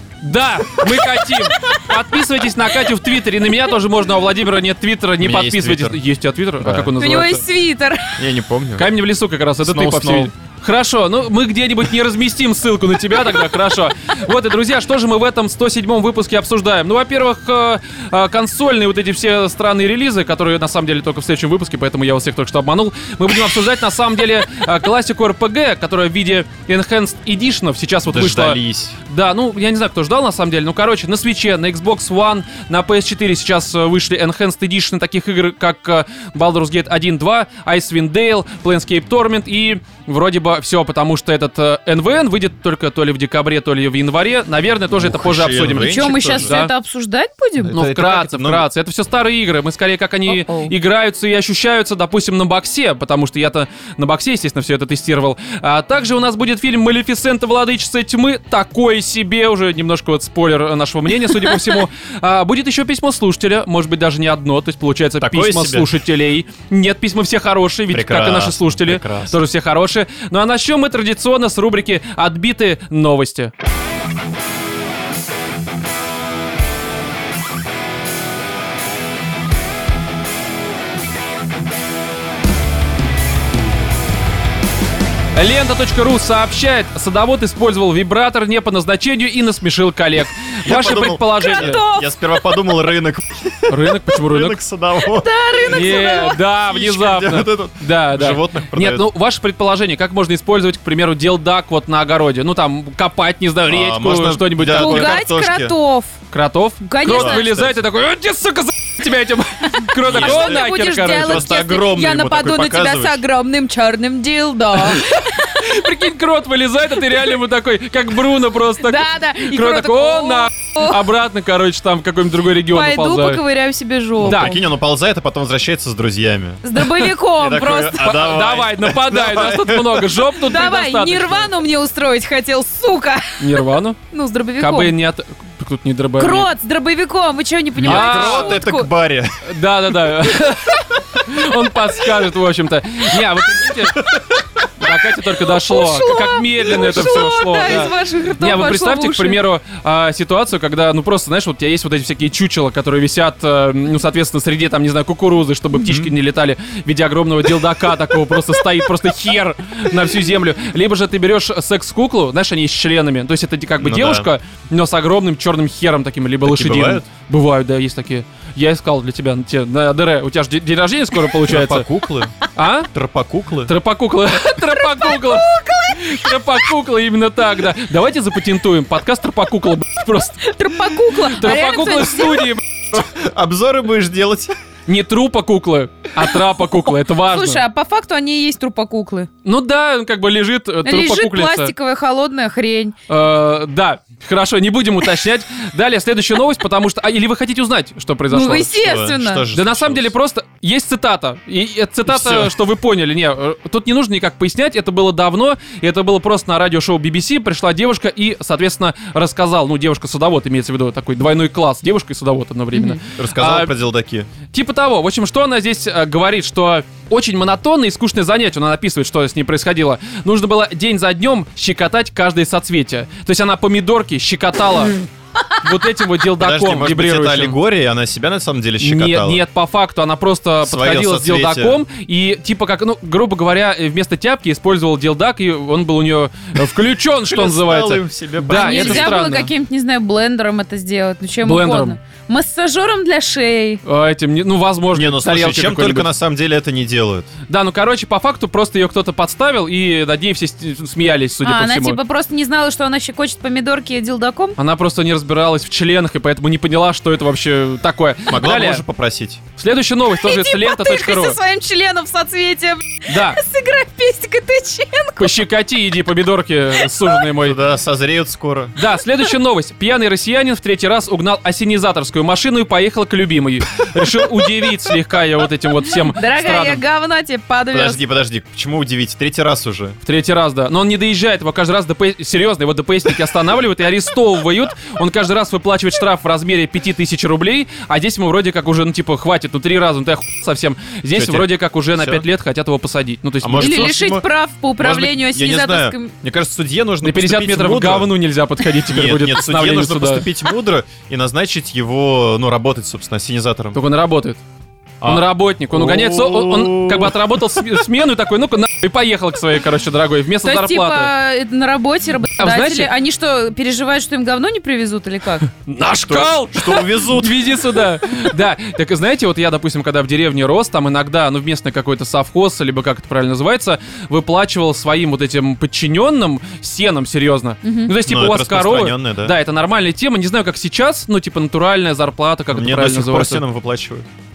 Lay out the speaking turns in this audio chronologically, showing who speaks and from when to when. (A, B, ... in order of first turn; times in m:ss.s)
0:00.2-0:07.4 A
0:01.3-0:01.9 B
0:05.2-0:06.0 C
0:06.6-0:06.9 C
0:07.0-0:08.2 B
0:08.2-0:08.9 C
0:08.8-0:46.7 A
0:09.6-0:10.3 C
0:28.1-0:29.0 C
0:44.9-0:46.5 C
0:45.9-0:47.8 B
0:47.6-0:48.7 C
0:47.7-1:13.5 A
0:50.3-0:50.7 B
1:05.2-1:05.9 C
1:07.9-1:09.4 C
1:25.4-1:31.8 A
1:30.6-1:39.0 C
1:31.4-1:32.1 B
1:33.7-1:34.6 A
1:35.0-1:36.4 B
1:35.6-1:45.2 A
1:43.7-1:45.7 C
1:44.7-1:46.1 B
1:46.3-1:51.5 A
1:46.8-1:47.5 B
1:47.0-1:47.8 C
1:50.0-1:53.2 C
1:50.1-1:55.9 B
1:54.9-2:03.4 A
1:58.8-2:01.0 B
2:02.7-2:04.6 B
2:04.2-2:10.2 C
2:04.2-2:04.6 A
2:06.6-2:08.2 B
2:08.0-2:11.5 A
2:10.3-2:13.6 B
2:13.4-2:14.0 A
2:14.1-2:14.9 B
2:14.6-2:16.5 A
2:16.2-2:18.9 B
2:17.8-2:19.4 C
2:17.8-2:18.6 A
2:19.4-2:24.0 A
2:23.8-2:24.4 C
2:24.8-2:51.8 A
2:25.6-2:29.4 B
2:35.8-2:36.1 C
2:43.8-2:44.3 C
2:46.4-2:47.0 C
2:51.4-2:52.4 C
2:52.4-2:52.9 A
2:52.9-2:53.7 C
2:53.6-3:00.5 A
2:54.8-2:56.4 B
3:00.4-3:02.5 B
3:01.2-3:02.9 A
3:02.9-3:04.5 C
3:04.9-3:07.6 A
3:07.2-3:09.3 B
3:09.4-3:11.7 A
3:10.8-3:12.9 B
3:13.1-3:18.7 A
3:18.3-3:19.4 B
3:18.7-3:20.1 C
3:19.5-3:33.7 A
3:22.1-3:22.5 C
3:32.7-3:33.0 B
3:33.2-3:34.3 C
3:34.5-3:45.0 A
3:45.5-3:47.6 A
3:46.4-3:49.4 C
3:48.8-3:59.5 A
3:50.6-3:51.8 C
3:57.2-3:59.2 C
3:58.5-4:03.8 B
4:01.4-4:02.0 A
4:03.8-4:06.1 A
4:04.9-4:07.3 C
4:07.5-4:12.0 A
4:11.4-4:14.6 B
4:14.6-4:18.8 A
4:18.3-4:19.4 C
4:19.6-4:21.4 A
4:20.2-4:25.3 B
4:23.1-4:23.4 A
4:25.2-4:27.6 A
4:27.3-4:28.8 C
4:28.8-4:36.8 A
4:36.0-4:38.0 B
4:37.7-4:40.0 C
4:40.0-4:54.0 A
4:51.1-4:52.2 C
4:53.4-4:54.2 C
4:53.6-4:56.1 B
4:54.8-4:58.1 C
4:57.0-5:00.3 A
4:58.9-5:03.8 C
5:03.7-5:04.4 A
5:05.0-5:07.6 C
5:05.0-5:11.1 A
5:10.4-5:15.5 B
5:12.4-5:12.9 A
5:15.6-5:33.4 A
5:16.0-5:17.5 C
5:27.6-5:27.9 B
5:27.9-5:29.3 C
5:32.5-5:34.1 C